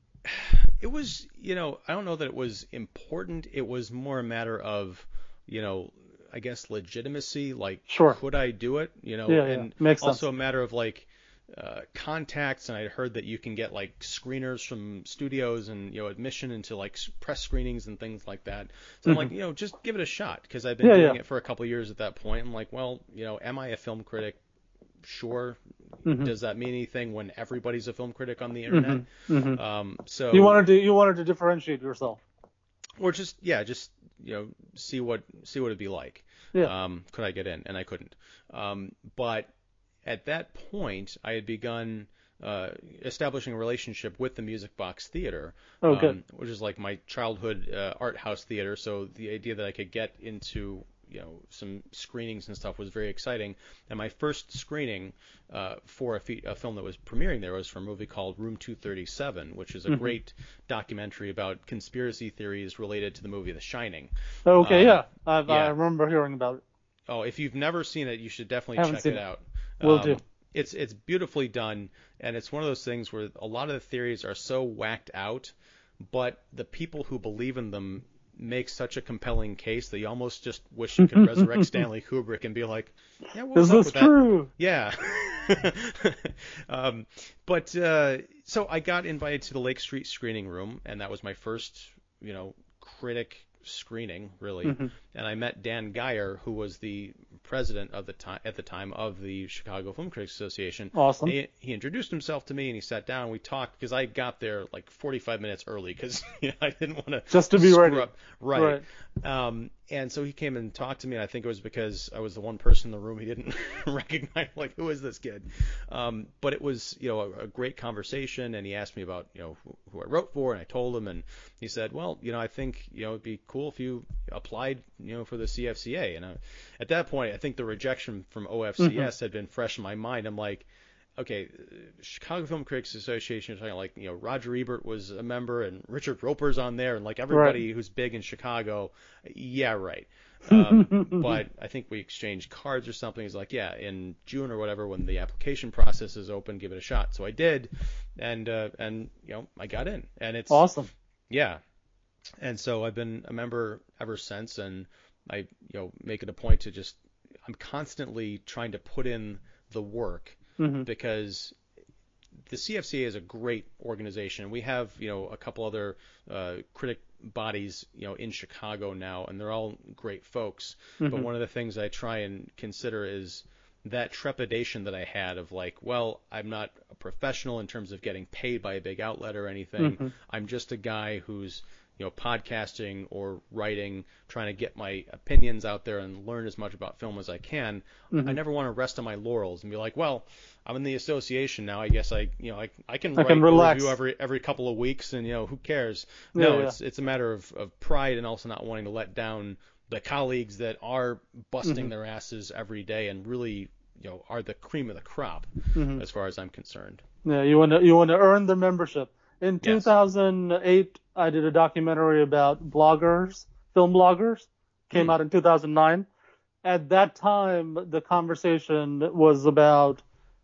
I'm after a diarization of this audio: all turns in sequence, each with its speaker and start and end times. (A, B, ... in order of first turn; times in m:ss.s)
0:00.2-0:24.4 A
0:07.9-0:08.2 B
0:09.3-0:10.2 B
0:20.8-0:21.2 B
0:25.0-0:30.6 A
0:26.0-0:26.3 B
0:28.7-0:29.6 B
0:30.3-0:32.2 B
0:33.0-0:39.5 A
0:40.0-1:05.7 A
0:45.8-0:46.2 B
0:59.9-1:00.2 B
1:04.4-1:06.6 B
1:07.1-2:30.7 A
1:08.8-1:09.2 B
1:09.8-1:10.2 B
1:21.0-1:21.8 B
1:23.5-1:24.5 B
1:34.6-1:34.9 B
1:40.9-1:41.3 B
1:47.3-1:48.8 B
2:08.8-2:09.1 B
2:17.3-2:17.6 B
2:20.5-2:21.4 B
2:30.5-2:30.9 B
2:31.3-2:31.6 A
2:32.4-2:41.6 A
2:40.6-2:40.9 B
2:42.4-3:27.0 A
2:51.0-2:51.3 B
2:59.8-3:00.1 B
3:08.1-3:08.4 B
3:13.2-3:14.0 B
3:16.3-3:16.7 B
3:21.6-3:21.9 B
3:25.7-3:26.0 B
3:27.2-3:36.0 B
3:29.6-3:29.9 A
3:36.6-3:40.0 B